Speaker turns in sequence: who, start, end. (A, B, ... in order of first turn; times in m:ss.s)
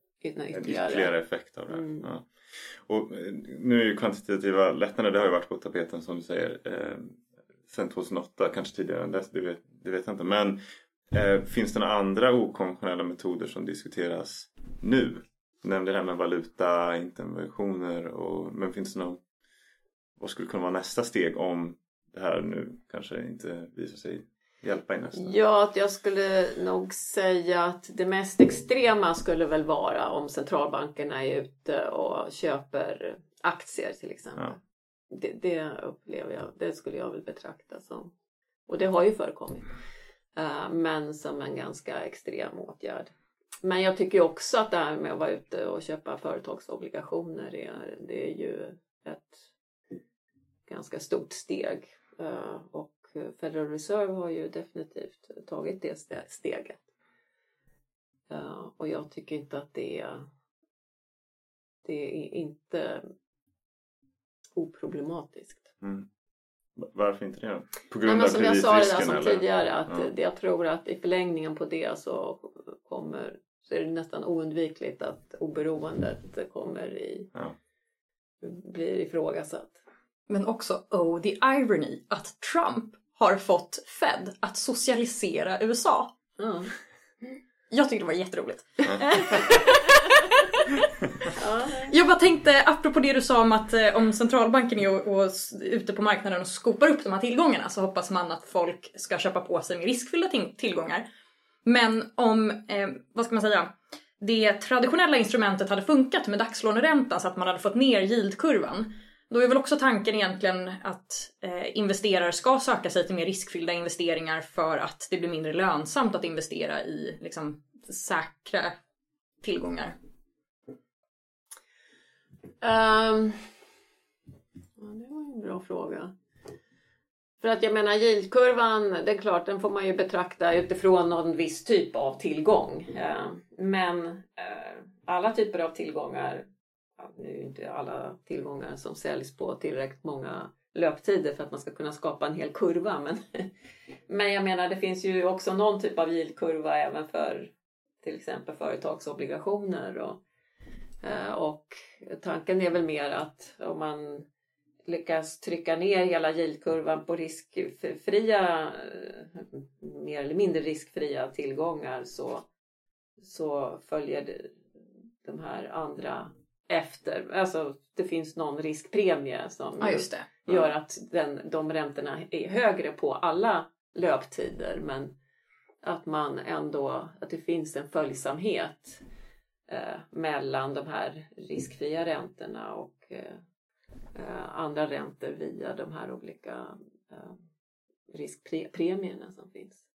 0:00.2-0:01.1 A
0:00.5-0:19.2 B
0:01.7-0:02.0 A
0:20.2-0:25.3 B
0:25.1-0:34.6 A
0:35.1-0:38.1 A
0:38.7-0:39.7 A
0:40.4-0:43.1 A
0:43.6-0:49.4 A
0:50.7-0:56.8 A
0:58.3-1:00.3 A
1:01.8-1:03.0 A
1:04.6-1:05.7 A
1:05.8-1:06.1 B
1:06.8-1:10.1 B
1:08.0-1:17.3 A
1:18.4-1:19.8 A
1:20.3-1:26.1 C
1:26.4-1:26.7 A
1:27.7-1:30.8 C
1:31.4-1:31.9 A
1:31.9-1:41.1 C
1:41.6-1:58.8 C
1:59.4-1:59.9 C
2:02.6-2:03.6 A
2:04.8-2:06.1 A
2:07.4-2:16.5 A
2:17.0-2:23.5 A
2:24.1-2:27.5 A
2:28.0-2:30.2 A
2:31.0-2:34.3 A
2:34.8-2:42.5 A
2:43.2-2:44.5 A
2:45.2-2:55.1 A
2:49.8-2:50.3 C
2:55.8-2:59.0 A
2:59.7-3:03.4 A
3:04.1-3:07.4 A
3:08.1-3:09.8 A